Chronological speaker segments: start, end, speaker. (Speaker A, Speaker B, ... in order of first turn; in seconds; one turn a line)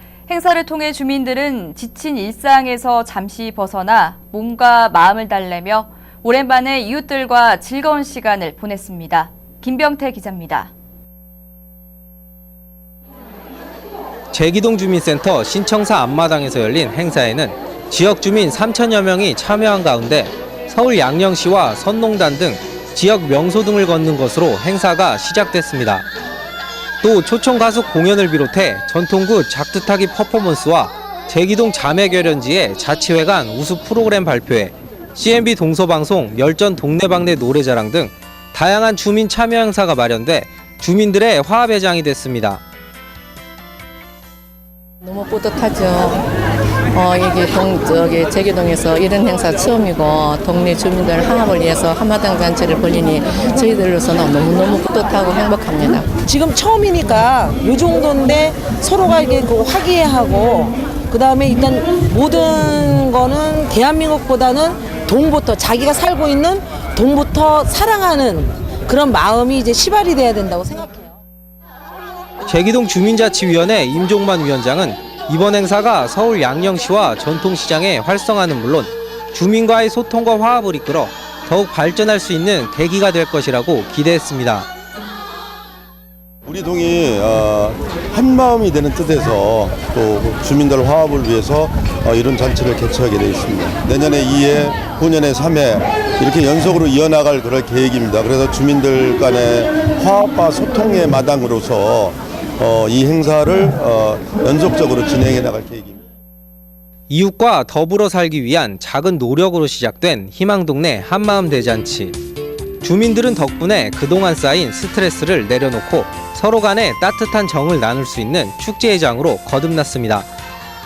Speaker A: 0.3-10.7
Speaker B: 14.3-26.1
Speaker B: 27.0-42.6
Speaker C: 45.0-46.3
Speaker C: 46.9-56.1
Speaker D: 56.3-71.1
Speaker B: 72.4-84.7
Speaker E: 86.5-106.0
Speaker B: 107.1-112.2
Speaker B: 112.8-120.3